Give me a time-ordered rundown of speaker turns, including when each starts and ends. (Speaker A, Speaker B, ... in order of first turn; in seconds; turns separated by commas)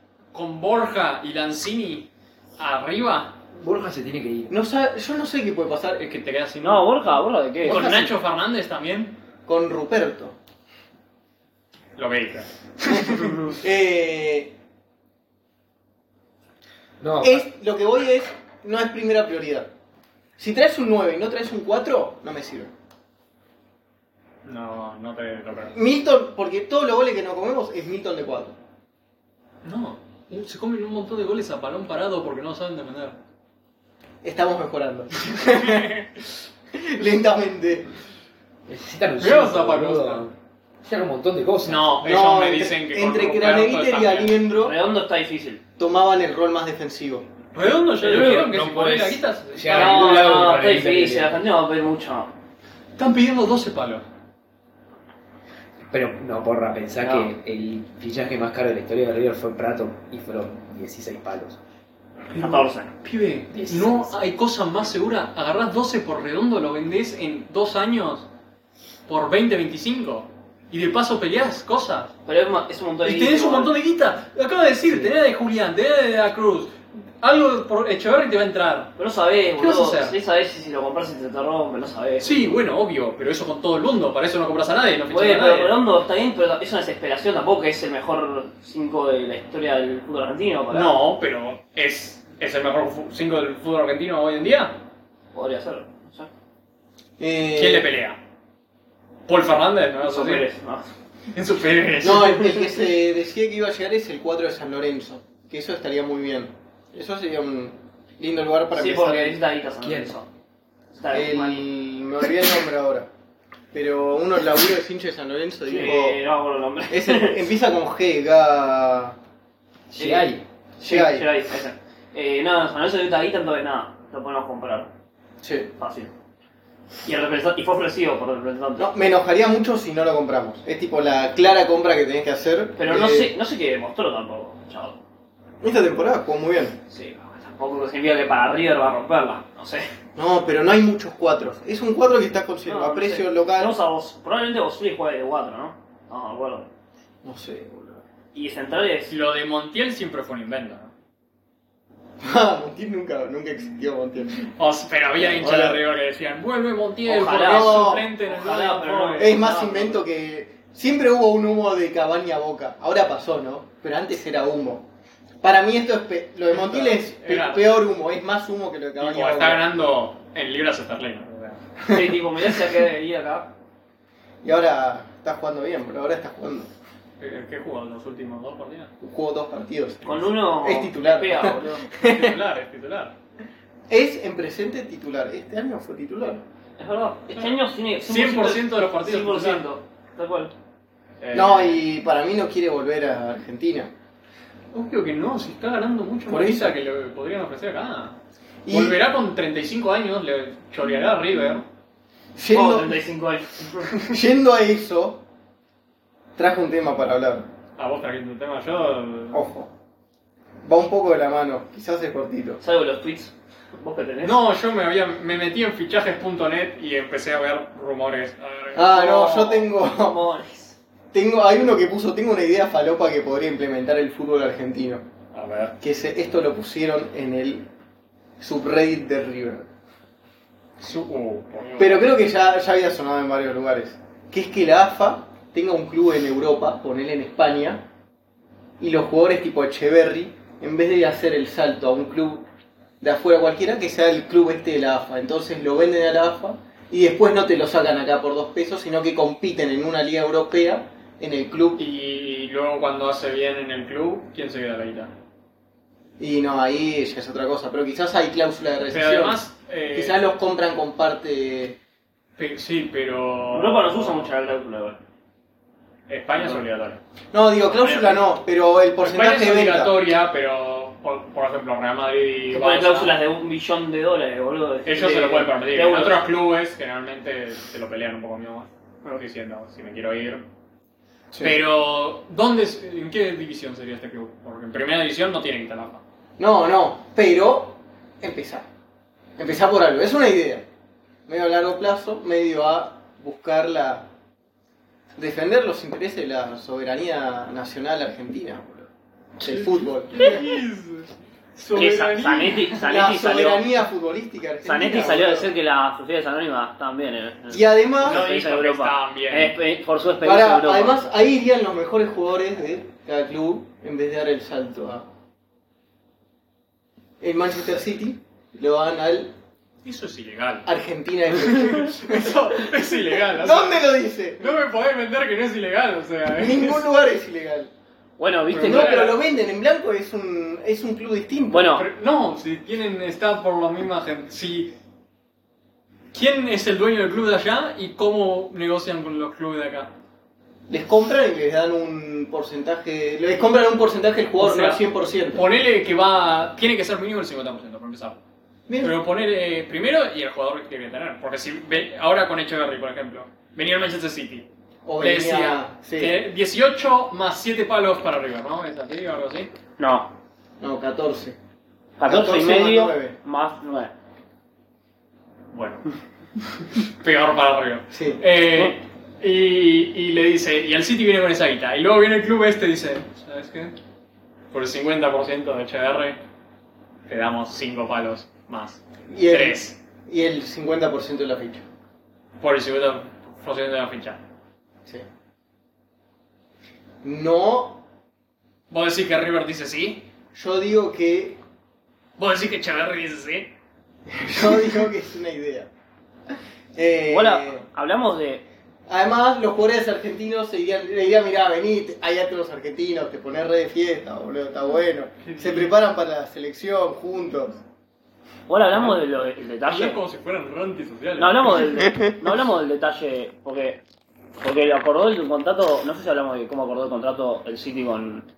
Speaker A: 0.3-3.3, Speaker B: 3.5-4.5, Speaker C: 4.5-6.0, Speaker A: 6.0-7.1, Speaker D: 6.6-7.9, Speaker A: 7.6-9.2, Speaker B: 7.7-8.1, Speaker C: 9.4-10.3, Speaker A: 11.9-13.5, Speaker C: 12.9-14.5, Speaker B: 17.0-17.4, Speaker C: 17.2-19.7, Speaker C: 20.4-22.7, Speaker A: 24.4-25.7, Speaker C: 25.7-28.6, Speaker A: 29.6-33.2, Speaker C: 34.2-37.9, Speaker A: 35.5-36.0, Speaker B: 38.7-41.9, Speaker A: 39.2-40.2, Speaker A: 41.6-44.3, Speaker C: 42.0-44.8, Speaker D: 44.6-45.6, Speaker C: 45.8-47.3, Speaker A: 47.5-50.6, Speaker D: 48.0-48.5, Speaker B: 48.0-51.3, Speaker D: 49.7-52.3, Speaker A: 53.0-54.0, Speaker B: 55.9-61.6, Speaker D: 57.0-57.3, Speaker A: 62.3-68.3, Speaker D: 62.4-62.9, Speaker B: 63.5-64.1, Speaker A: 69.1-72.1, Speaker D: 72.2-73.8, Speaker A: 73.0-78.9, Speaker D: 79.0-82.5, Speaker A: 79.6-80.2, Speaker A: 82.2-85.7, Speaker D: 85.1-90.9, Speaker A: 90.7-94.8, Speaker D: 95.3-96.3, Speaker C: 97.2-97.9, Speaker A: 97.5-98.2, Speaker A: 99.3-100.5, Speaker D: 100.0-100.9, Speaker A: 101.3-102.7, Speaker C: 102.0-109.4, Speaker D: 108.7-110.3, Speaker B: 109.8-110.1, Speaker D: 110.9-111.6, Speaker C: 111.1-113.1, Speaker C: 113.7-116.2, Speaker D: 115.7-117.4, Speaker C: 116.9-119.2, Speaker B: 119.9-120.4, Speaker D: 120.0-120.3, Speaker C: 120.8-121.3, Speaker D: 120.8-124.9, Speaker C: 125.4-125.7, Speaker D: 125.8-126.1, Speaker D: 127.0-128.9, Speaker C: 128.8-133.3, Speaker D: 132.8-135.0, Speaker C: 135.6-136.8, Speaker D: 136.9-139.9, Speaker C: 140.2-143.8, Speaker D: 142.7-146.7, Speaker C: 147.2-148.0, Speaker D: 148.3-149.1, Speaker A: 149.1-150.9, Speaker C: 152.2-154.5, Speaker A: 154.6-159.4, Speaker C: 155.2-155.8, Speaker D: 157.1-160.0, Speaker C: 157.5-158.1, Speaker C: 159.2-164.9, Speaker C: 165.4-169.7, Speaker A: 166.5-167.7, Speaker A: 169.0-171.6, Speaker C: 171.9-172.1, Speaker D: 171.9-173.5, Speaker C: 174.4-176.7, Speaker A: 177.2-178.9, Speaker C: 179.0-182.4, Speaker D: 180.0-181.9, Speaker A: 182.0-183.1, Speaker C: 183.9-186.4, Speaker D: 186.8-190.5, Speaker A: 187.3-189.7, Speaker A: 191.2-191.8, Speaker C: 191.3-193.9, Speaker A: 194.7-198.2, Speaker C: 196.3-196.7, Speaker C: 198.7-199.0, Speaker A: 198.7-201.7, Speaker C: 202.3-203.0, Speaker D: 202.5-203.9, Speaker C: 203.8-205.2, Speaker C: 206.3-207.5, Speaker A: 207.8-209.4, Speaker C: 209.3-209.7, Speaker C: 210.6-212.6, Speaker D: 212.6-214.4, Speaker A: 214.2-219.0, Speaker C: 218.7-220.2, Speaker D: 218.9-220.8, Speaker C: 221.1-225.0, Speaker A: 225.3-225.7, Speaker C: 225.8-227.7, Speaker C: 228.4-229.7, Speaker A: 230.8-232.1, Speaker C: 231.8-237.8, Speaker C: 238.8-242.4, Speaker C: 243.0-251.8, Speaker A: 251.8-255.1, Speaker C: 256.2-261.8, Speaker A: 258.9-260.2, Speaker A: 262.4-264.3, Speaker D: 263.5-265.0, Speaker A: 266.1-267.0, Speaker C: 267.3-270.0, Speaker A: 267.8-268.2, Speaker A: 269.0-273.1, Speaker D: 272.5-276.3, Speaker A: 274.9-280.4, Speaker C: 281.3-281.6, Speaker A: 281.4-286.0, Speaker C: 286.4-288.6, Speaker C: 289.4-290.6, Speaker C: 291.3-294.1, Speaker C: 295.1-300.3, Speaker A: 299.4-302.9, Speaker D: 301.7-303.7, Speaker C: 302.9-305.5, Speaker D: 304.6-311.0, Speaker C: 307.5-308.2, Speaker A: 308.0-309.5, Speaker C: 310.2-315.1, Speaker C: 317.2-319.3, Speaker A: 319.8-320.7, Speaker C: 320.6-324.5, Speaker A: 321.5-326.8, Speaker C: 326.3-327.7, Speaker D: 328.2-329.1, Speaker A: 328.5-329.2, Speaker C: 328.5-331.8, Speaker D: 331.5-331.9, Speaker A: 331.8-334.8, Speaker A: 336.1-339.9, Speaker C: 340.7-345.4, Speaker A: 344.4-344.8, Speaker A: 345.3-348.2, Speaker C: 348.7-349.0, Speaker A: 348.8-354.5, Speaker C: 354.8-356.2, Speaker A: 355.0-359.5, Speaker D: 359.8-360.1, Speaker C: 360.6-361.4, Speaker D: 362.0-363.9, Speaker C: 362.1-363.1, Speaker A: 365.5-373.7, Speaker C: 367.9-368.2, Speaker A: 374.5-376.2, Speaker A: 377.1-379.7, Speaker C: 379.1-381.6, Speaker A: 382.4-384.2, Speaker C: 387.0-387.8, Speaker A: 388.7-390.1, Speaker C: 390.3-391.4, Speaker A: 392.2-393.5, Speaker C: 394.1-395.7, Speaker C: 396.7-397.6, Speaker D: 397.1-398.4, Speaker C: 398.9-407.6, Speaker A: 405.2-405.7, Speaker D: 408.5-410.0, Speaker A: 408.7-409.0, Speaker A: 409.6-411.6, Speaker D: 411.2-413.8, Speaker D: 414.4-418.2